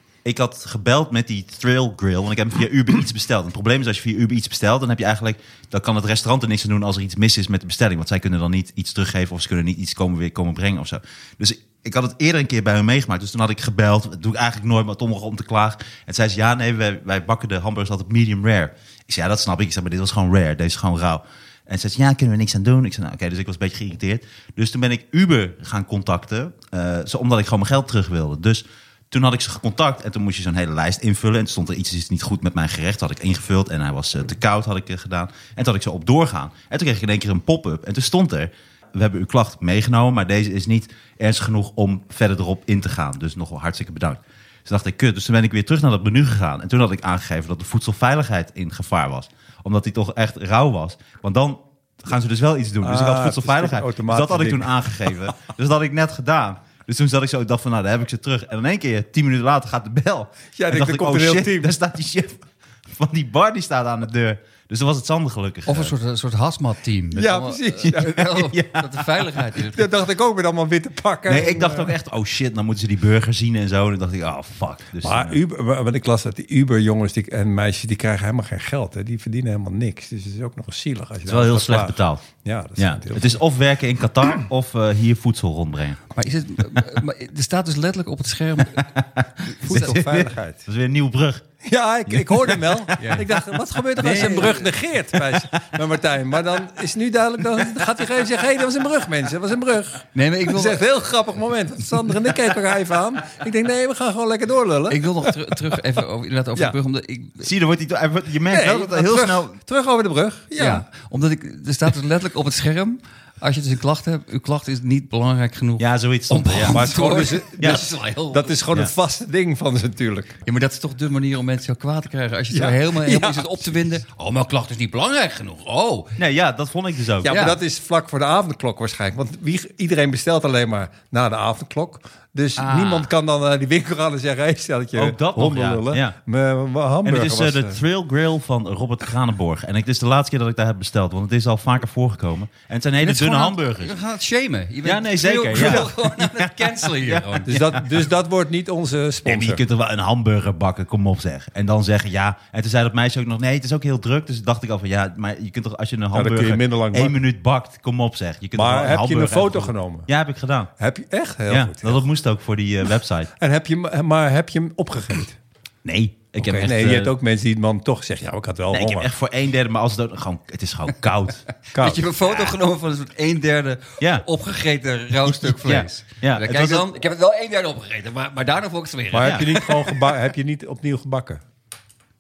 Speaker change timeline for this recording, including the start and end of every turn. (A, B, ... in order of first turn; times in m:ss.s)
0:00.2-1:05.9 A
0:52.8-0:55.3 B
1:00.5-1:01.7 B
1:05.7-1:09.9 C
1:07.1-1:08.2 B
1:07.8-1:09.0 A
1:09.7-1:11.9 B
1:11.2-1:15.4 A
1:15.0-1:23.4 B
1:21.2-1:22.2 A
1:22.8-1:26.0 A
1:26.1-1:28.9 C
1:28.8-1:31.5 A
1:29.5-1:29.9 C
1:29.6-1:30.6 B
1:31.6-1:45.5 B
1:32.1-1:33.0 A
1:33.0-1:33.2 C
1:34.0-1:34.7 C
1:34.0-1:34.4 A
1:35.2-1:35.7 A
1:40.1-1:40.8 C
1:44.9-1:47.5 C
1:47.4-1:49.6 A
1:48.5-1:50.8 B
1:50.6-1:58.5 C
1:55.8-1:56.8 A
1:56.5-2:00.4 B
1:57.6-1:57.8 A
2:00.4-2:06.1 C
2:02.5-2:03.6 B
2:06.2-2:07.4 A
2:07.2-2:17.8 B
2:07.2-2:07.6 C
2:12.6-2:13.1 C
2:14.9-2:16.1 A
2:17.0-2:24.0 A
2:23.0-2:27.6 C
2:24.8-2:27.9 A
2:25.5-2:25.9 B
2:27.5-2:29.6 B
2:29.2-2:40.7 A
2:36.1-2:37.2 B
2:38.5-2:40.1 B
2:40.8-2:42.0 B
2:41.5-2:43.3 A
2:43.4-2:45.4 B
2:45.8-2:47.1 A
2:46.4-2:49.1 B
2:48.7-2:51.4 A
2:51.7-2:52.0 B
2:51.7-2:59.6 C
2:52.2-2:52.6 A
2:55.2-2:56.9 A
2:59.1-3:01.4 B
2:59.2-2:59.7 A